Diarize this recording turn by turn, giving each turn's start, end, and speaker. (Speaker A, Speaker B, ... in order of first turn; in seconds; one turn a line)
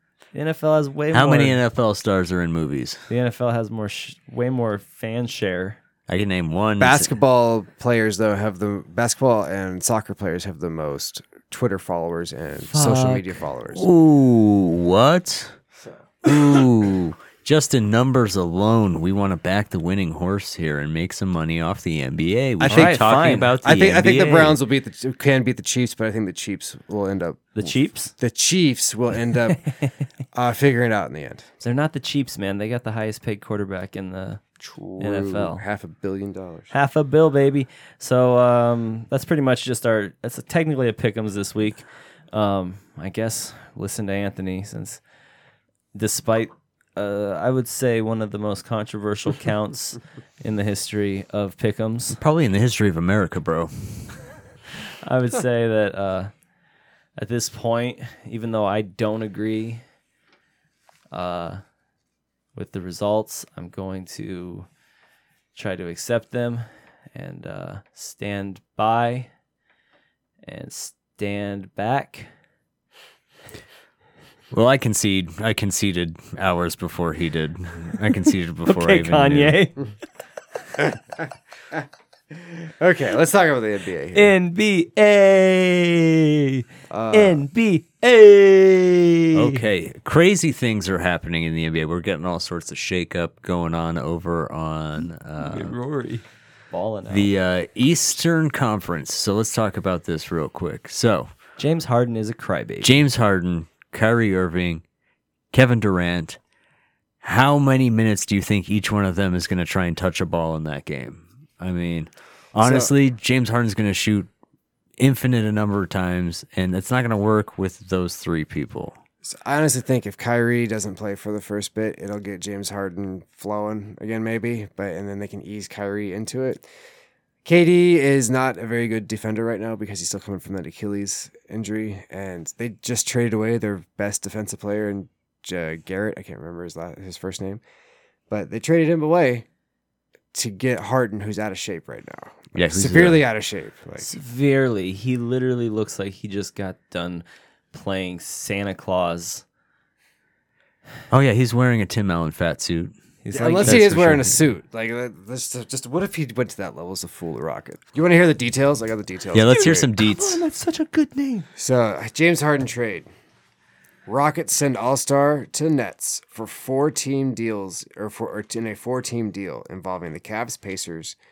Speaker A: 0.3-1.6
Speaker B: 1.1-3.0
Speaker A: 3.1-5.8
Speaker B: 6.1-7.1
Speaker C: 6.8-13.9
Speaker A: 12.7-13.4
Speaker B: 13.7-15.6
Speaker B: 16.2-24.6
Speaker A: 22.6-24.2
Speaker C: 22.6-23.0
Speaker C: 23.6-29.6
Speaker A: 27.6-28.1
Speaker C: 30.3-31.5
Speaker A: 31.6-34.4
Speaker C: 34.6-36.7
Speaker A: 35.0-35.6
Speaker A: 36.7-45.0
Speaker A: 45.9-52.2
Speaker B: 52.2-54.1
Speaker A: 54.9-56.3
Speaker A: 57.2-59.8
Speaker A: 61.1-61.6
Speaker A: 62.5-64.7
Speaker A: 65.5-69.3
Speaker A: 70.5-72.3
Speaker B: 74.5-79.6
Speaker A: 78.7-79.9
Speaker C: 82.3-84.3
Speaker A: 84.1-89.6
Speaker C: 86.9-87.5
Speaker B: 89.3-95.8
Speaker A: 95.4-97.3
Speaker B: 97.1-101.3
Speaker A: 101.6-103.0
Speaker B: 102.8-104.8
Speaker B: 105.5-106.4
Speaker B: 107.2-114.3
Speaker C: 112.6-112.9
Speaker B: 115.0-119.0
Speaker C: 119.2-126.7
Speaker C: 127.5-137.6
Speaker C: 138.3-139.5
Speaker C: 140.3-144.1
Speaker B: 142.6-143.2
Speaker A: 144.0-149.4
Speaker B: 151.1-152.9
Speaker A: 153.2-154.0
Speaker C: 153.3-159.9
Speaker B: 153.6-154.3
Speaker B: 159.3-160.4
Speaker A: 159.5-161.5
Speaker C: 161.6-163.1
Speaker C: 164.1-171.2